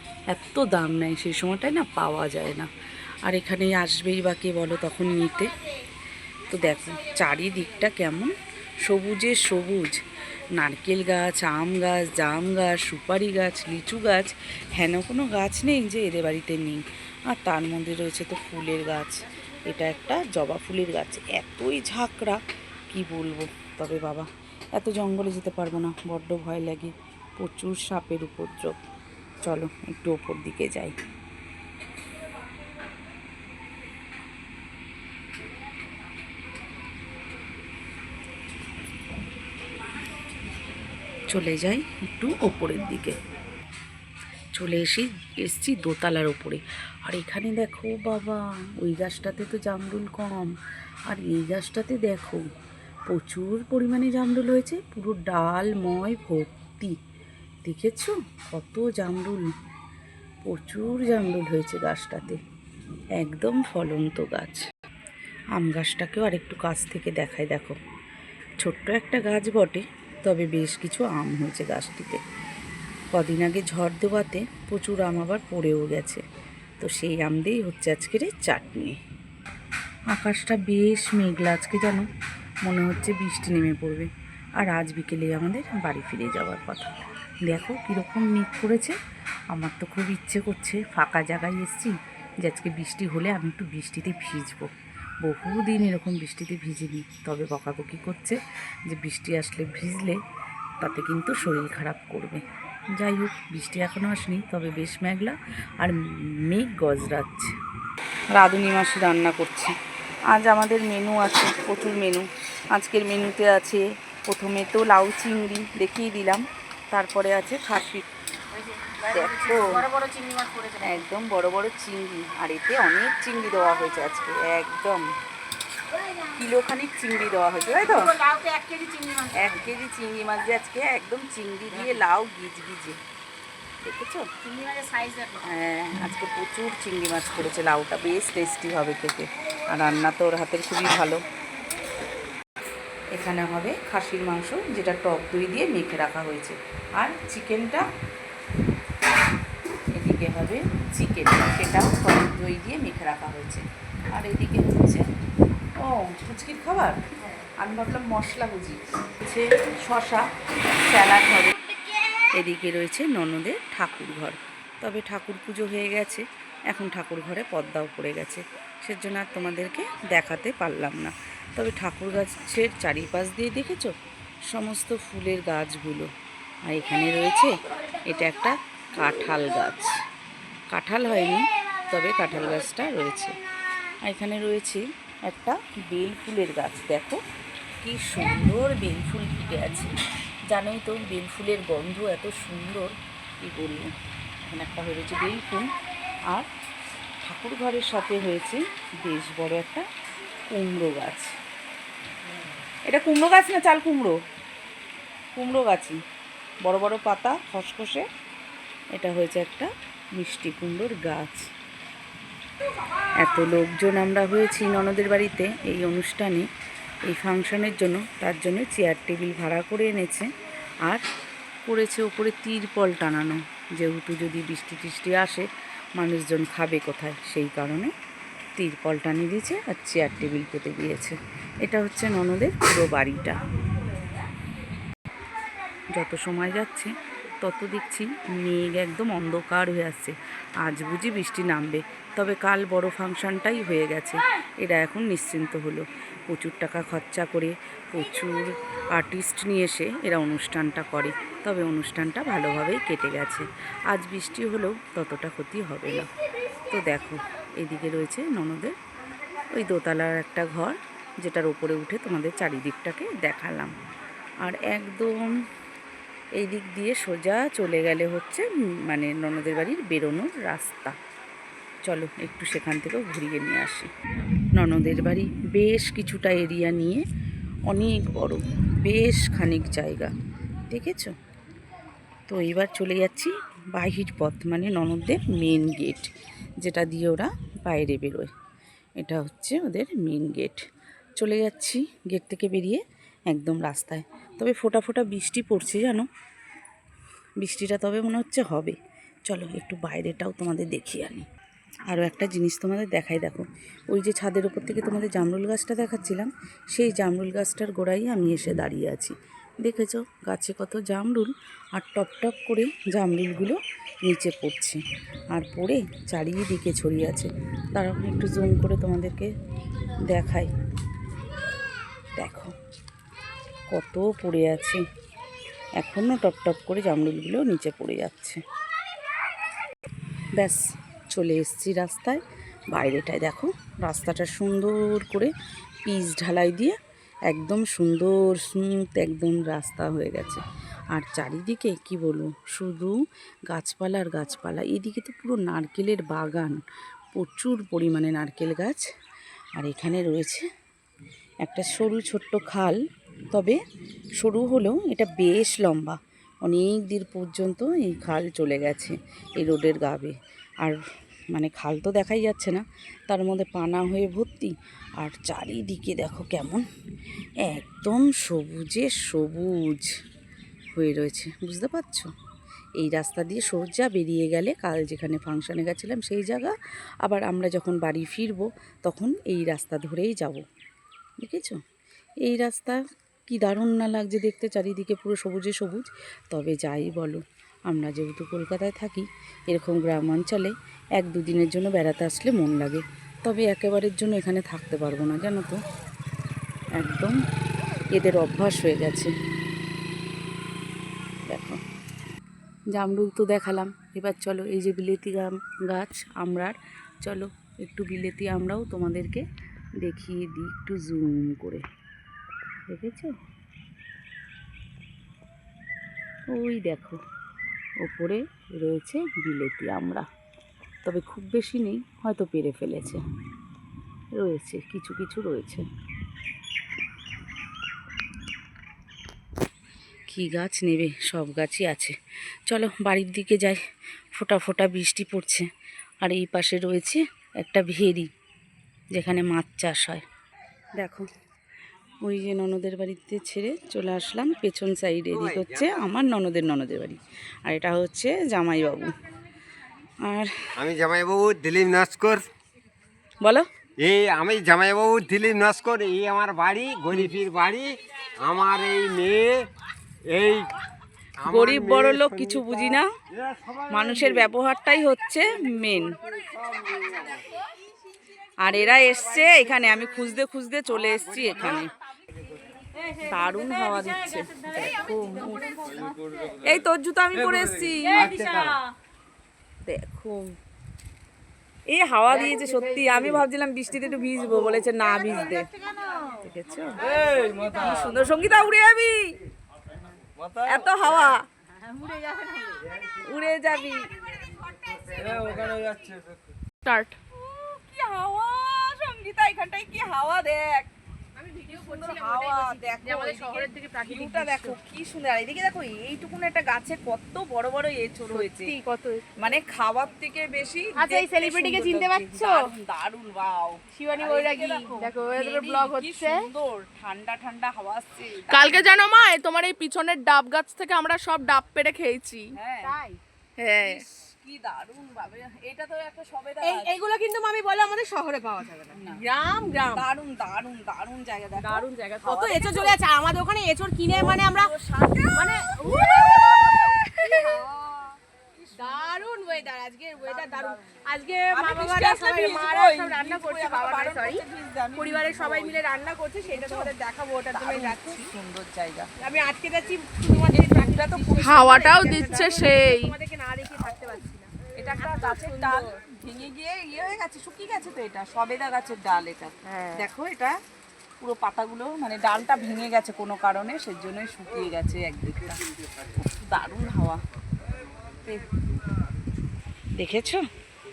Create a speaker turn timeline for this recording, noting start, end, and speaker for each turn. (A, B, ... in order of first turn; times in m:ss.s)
0:00.3-0:02.7 A
0:03.3-0:05.5 A
0:06.5-0:10.0 A
0:10.6-0:28.8 A
0:29.4-0:31.0 A
0:41.3-0:43.2 A
0:44.6-0:50.6 A
0:51.1-0:52.4 A
0:53.1-0:57.0 A
0:57.6-0:59.5 A
1:00.4-1:02.4 A
1:03.2-1:04.7 A
1:05.6-1:07.8 A
1:08.6-1:12.2 A
1:13.1-1:16.2 A
1:16.8-1:18.9 A
1:20.1-1:22.1 A
1:22.6-1:26.9 A
1:27.4-1:29.0 A
1:29.5-1:34.7 A
1:35.2-1:40.2 A
1:40.8-1:47.5 A
1:48.4-1:49.7 A
1:50.3-1:58.1 A
1:58.8-2:01.0 B
1:59.1-1:59.8 A
2:00.8-2:05.1 A
2:06.3-2:08.1 A
2:07.8-2:09.7 B
2:09.3-2:13.0 A
2:13.8-2:14.3 A
2:14.4-2:15.4 B
2:15.4-2:21.2 A
2:23.1-2:27.9 A
2:29.9-2:35.1 A
2:35.8-2:37.0 A
2:37.6-2:41.6 A
2:42.3-2:54.0 A
2:54.5-2:56.1 A
2:56.7-3:00.0 A
3:00.7-3:03.4 A
3:04.0-3:07.2 A
3:07.8-3:09.9 A
3:10.5-3:13.9 A
3:14.4-3:15.7 A
3:17.2-3:19.9 A
3:20.5-3:21.4 A
3:22.9-3:24.2 A
3:25.4-3:26.0 A
3:26.6-3:28.1 A
3:28.9-3:31.5 A
3:33.2-3:36.5 A
3:37.1-3:40.3 A
3:41.7-3:45.5 A
3:46.0-3:47.9 A
3:48.6-3:53.4 A
3:55.9-4:16.1 A
4:16.7-4:18.8 A
4:19.5-4:23.8 A
4:24.4-4:25.4 A
4:26.4-4:31.0 A
4:31.8-4:33.9 A
4:34.6-4:37.0 A
4:37.7-4:40.1 A
4:40.7-4:41.1 A
4:42.3-4:46.1 A
4:46.6-4:48.3 A
4:49.0-4:50.6 A
4:51.2-4:56.1 A
4:57.4-4:58.8 A
4:59.3-5:01.2 A
5:01.9-5:14.8 A
5:15.3-5:19.3 A
5:20.1-5:20.5 A
5:22.2-5:22.6 A
5:23.7-5:24.8 A
5:25.8-5:28.4 A
5:30.4-5:35.3 A
5:35.9-5:36.8 A
5:37.3-5:43.0 A
5:43.5-5:46.6 A
5:47.1-5:48.9 A
5:49.6-5:50.4 A
5:51.4-5:52.8 A
5:53.3-5:53.6 A
5:54.2-6:00.8 A
6:01.3-6:06.6 A
6:07.4-6:09.9 A
6:10.8-6:12.1 A
6:12.8-6:20.4 A
6:21.2-6:21.6 A
6:22.2-6:35.6 A
6:36.8-6:37.2 A
6:37.9-6:39.1 A
6:41.3-6:41.6 A
6:42.7-6:49.2 A
6:49.8-6:51.6 A
6:52.7-6:53.1 A
6:56.3-6:57.0 A
6:57.8-7:00.0 A
7:00.8-7:03.0 A
7:04.2-7:05.6 A
7:10.1-7:12.0 A
7:12.5-7:13.6 A
7:14.1-7:15.5 A
7:16.0-7:18.1 A
7:18.9-7:20.0 A
7:20.8-7:21.1 A
7:22.0-7:29.0 A
7:25.2-7:25.7 C
7:30.0-7:30.3 A
7:30.6-7:32.3 C
7:33.8-7:39.5 C
7:40.0-7:40.5 C
7:41.2-7:42.9 A
7:41.2-7:42.4 C
7:43.7-7:46.0 A
7:48.4-7:51.7 A
7:53.0-7:55.5 A
7:56.4-7:58.4 A
7:59.7-8:00.4 A
8:01.7-8:05.5 A
8:06.2-8:09.2 A
8:10.3-8:11.2 A
8:11.8-8:12.6 B
8:13.0-8:13.9 A
8:14.4-8:15.7 B
8:15.0-8:15.6 A
8:16.6-8:17.0 D
8:17.1-8:20.7 A
8:21.2-8:24.6 B
8:21.5-8:28.6 A
8:28.1-8:29.0 B
8:29.2-8:39.0 A
8:30.8-8:32.5 B
8:33.7-8:36.2 B
8:38.3-8:42.3 D
8:42.4-8:42.8 A
8:42.6-8:43.0 B
8:43.4-8:43.8 D
8:43.6-8:46.8 A
8:46.4-8:49.8 B
8:48.7-8:49.0 A
8:49.7-8:52.8 A
8:51.4-8:54.5 B
8:53.9-8:57.5 A
8:55.1-8:58.0 B
8:58.5-8:59.4 A
8:58.6-9:04.2 B
9:00.0-9:00.6 A
9:01.3-9:05.7 A
9:04.8-9:08.1 B
9:06.2-9:08.9 A
9:09.0-9:15.6 B
9:10.2-9:12.4 A
9:11.2-9:13.0 D
9:14.6-9:20.4 A
9:19.4-9:19.9 B
9:21.0-9:25.4 A
9:26.0-9:27.0 A
9:29.8-9:30.2 A